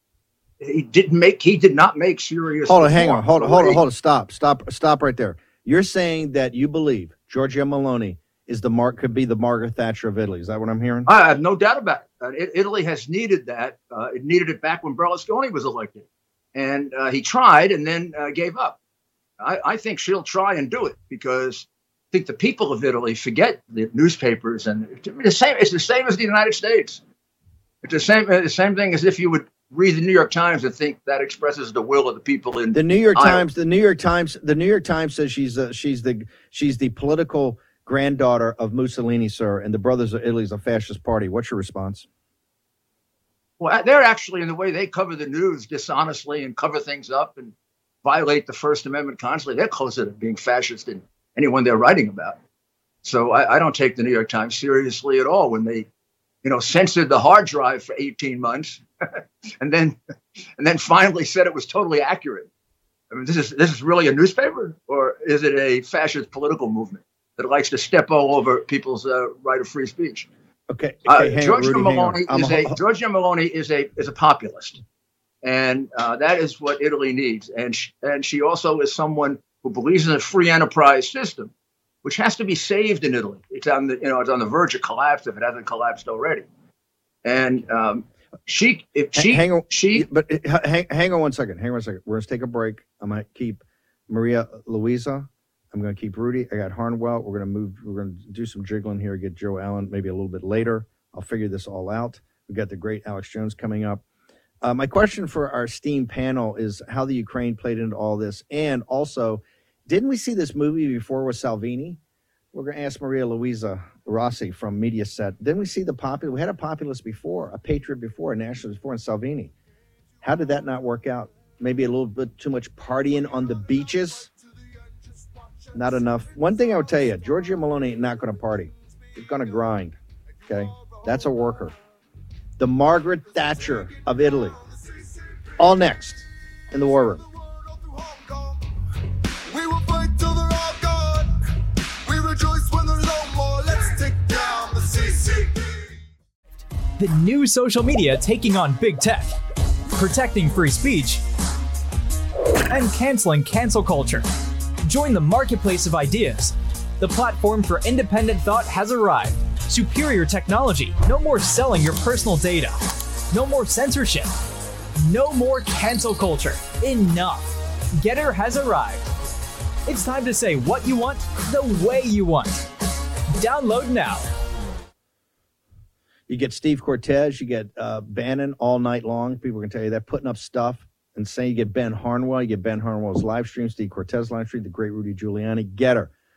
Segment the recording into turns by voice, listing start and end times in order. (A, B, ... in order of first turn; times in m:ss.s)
0:00.6-0:03.8 A
0:02.7-0:11.1 B
0:11.1-0:18.8 A
0:19.4-0:27.0 A
0:27.8-0:33.4 A
0:32.7-0:42.1 B
0:43.6-0:52.4 A
0:53.0-0:55.9 A
0:56.4-1:00.0 A
1:00.6-1:02.5 A
1:03.1-1:10.3 A
1:10.7-1:12.8 B
1:11.1-1:14.8 A
1:15.4-1:21.5 A
1:22.0-1:26.5 A
1:27.2-1:30.1 A
1:29.2-1:44.0 B
1:44.6-1:52.0 B
1:52.5-1:59.5 B
2:00.2-2:04.3 B
2:05.7-2:11.8 B
2:12.6-2:14.6 B
2:15.6-2:17.3 B
2:27.0-2:29.4 C
2:29.9-2:31.2 C
2:32.7-2:34.2 C
2:34.9-2:42.8 C
2:43.3-2:44.3 C
2:45.1-2:49.1 C
2:49.9-2:52.6 C
2:53.4-2:54.3 C
2:56.3-3:06.1 B